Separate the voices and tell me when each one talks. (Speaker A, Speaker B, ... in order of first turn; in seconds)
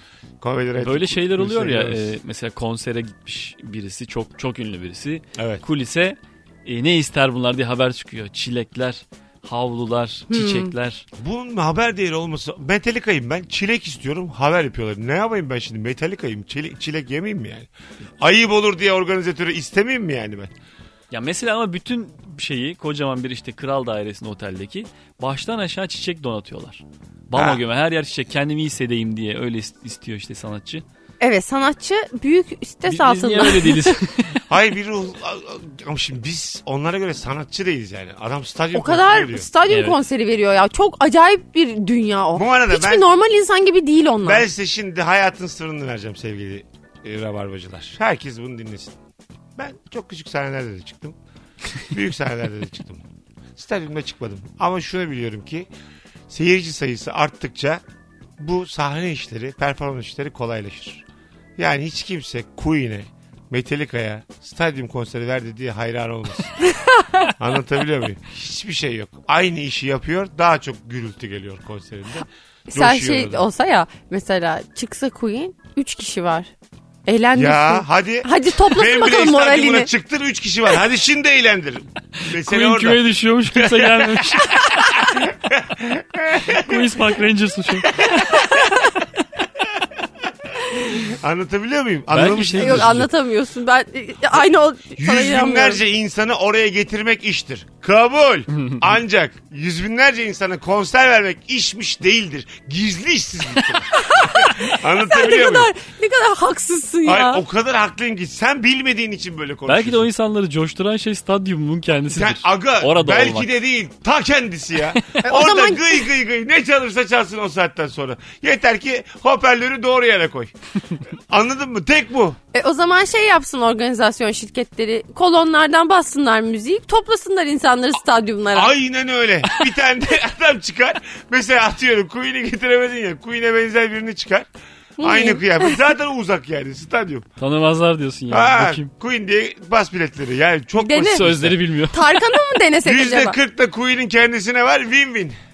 Speaker A: 0.4-2.1, 5.4-5.6, 11.2-17.7, 18.2-20.5, 27.3-27.6, 34.5-39.5, 42.3-43.0, 44.2-49.0, 49.5-51.2, 51.9-53.0, 53.5-55.7, 56.3-57.8, 58.4-61.0, 61.6-66.5, 67.4-73.5, 77.3-87.0, 87.8-88.9, 90.7-93.1, 95.0-105.7, 107.0-110.1, 112.1-120.5, 121.3-122.4, 128.5-134.5, 135.0-137.2, 138.3-141.6, 142.8-145.3
Speaker B: 0.8-11.0, 21.1-30.8, 32.9-34.4, 39.7-40.0, 82.2-84.9, 86.5-88.0, 92.1-93.0, 98.5-98.8, 109.7-113.5, 137.4-138.9, 141.0-142.0
Speaker C: 10.3-10.7, 31.2-34.0, 38.7-44.4, 66.8-67.3, 72.7-76.5, 77.0-79.9, 88.1-88.9, 92.6-95.8, 104.0-107.4, 115.2-116.0, 122.5-128.7, 135.0-135.8, 140.8-141.2, 141.9-143.4